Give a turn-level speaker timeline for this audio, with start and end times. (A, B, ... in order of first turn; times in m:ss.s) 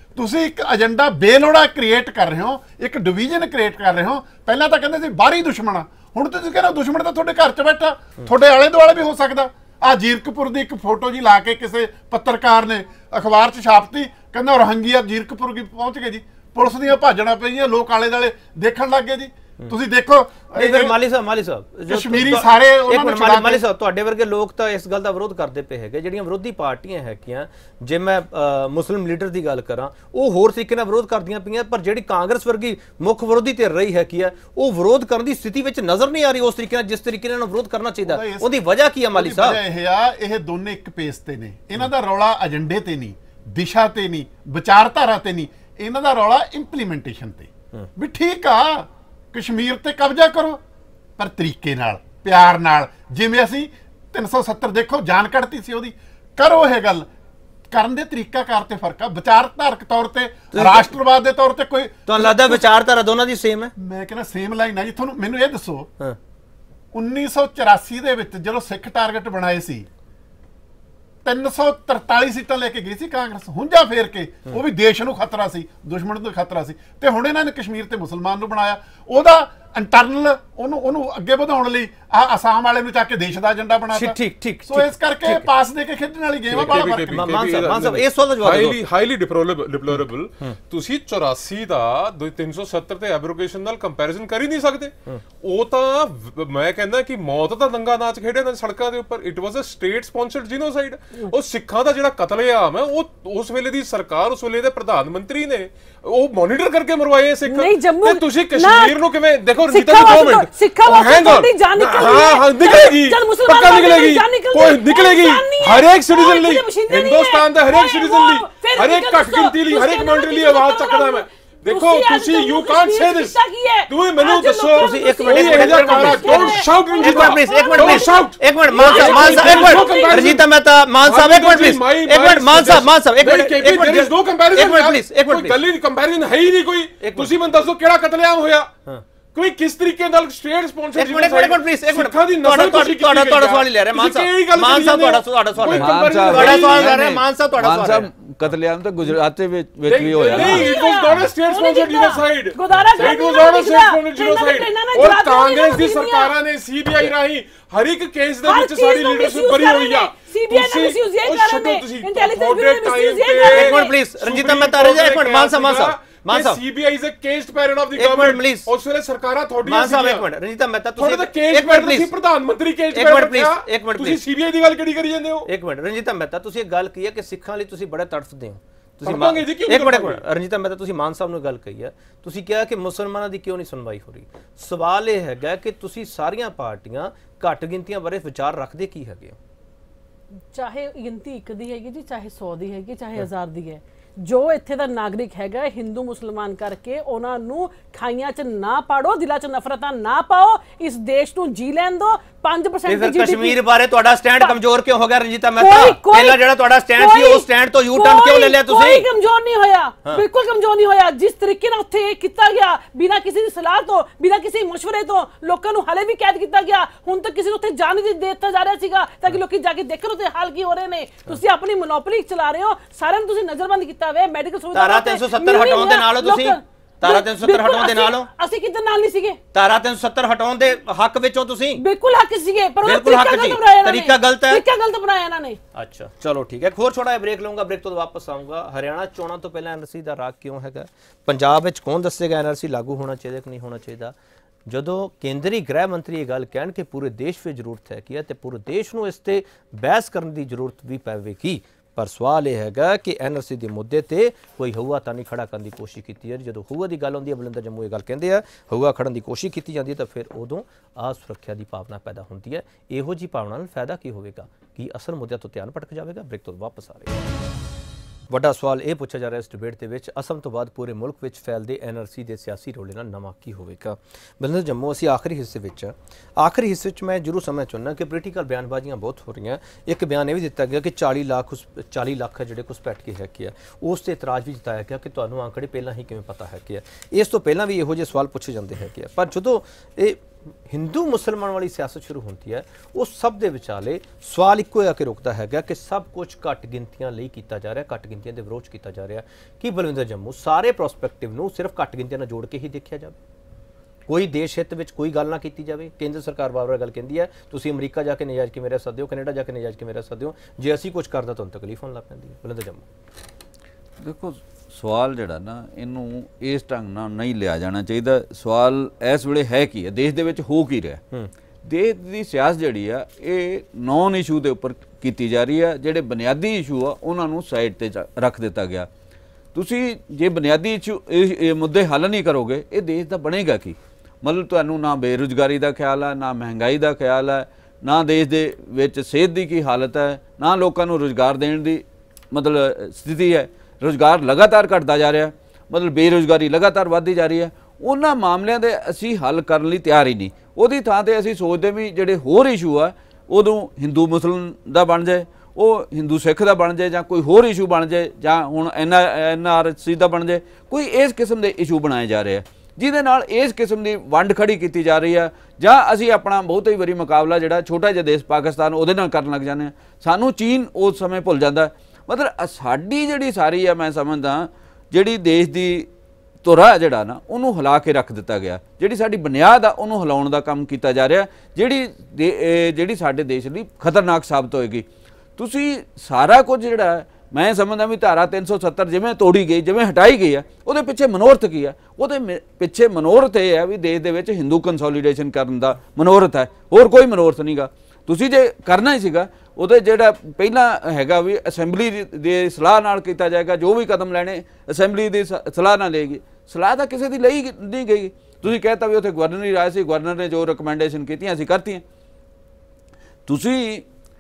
0:00.2-0:20.9 A
0:20.5-0:39.6 B
0:21.9-0:23.6 A
0:38.0-0:38.5 A
0:39.1-0:50.6 A
0:51.2-0:57.1 A
0:57.7-1:02.6 A
1:00.5-1:00.9 B
1:02.1-1:03.7 B
1:03.8-1:05.9 A
1:06.9-1:09.9 A
1:11.2-1:27.2 A
1:23.9-1:25.5 B
1:26.5-1:28.8 B
1:26.5-2:10.4 C
1:47.5-1:49.0 D
1:49.7-2:10.4 D
2:04.8-2:15.6 B
2:11.0-2:18.7 C
2:17.0-2:17.3 B
2:19.3-2:27.0 C
2:20.9-2:28.1 B
2:25.7-2:30.7 E
2:29.8-2:50.2 C
2:30.3-2:36.3 D
2:38.4-2:43.9 D
2:43.4-2:46.6 B
2:47.9-2:48.7 B
2:49.6-2:52.1 B
2:51.0-2:55.5 C
2:52.9-2:54.2 B
2:55.5-3:09.4 B
2:59.0-3:00.2 C
3:10.5-3:23.6 D
3:22.9-3:29.0 B
3:25.6-3:26.4 D
3:27.0-3:49.4 D
3:44.7-3:48.3 B
3:49.5-3:51.8 B
3:51.8-3:55.6 D
3:52.8-3:54.6 B
3:55.7-4:04.1 B
4:04.7-4:27.2 B
4:28.3-5:03.1 B
5:04.1-5:12.8 B
5:14.0-5:21.0 E
5:21.6-5:28.9 E
5:29.5-6:15.9 E
6:16.4-6:24.8 E
6:25.4-6:51.8 E
6:53.3-6:53.8 E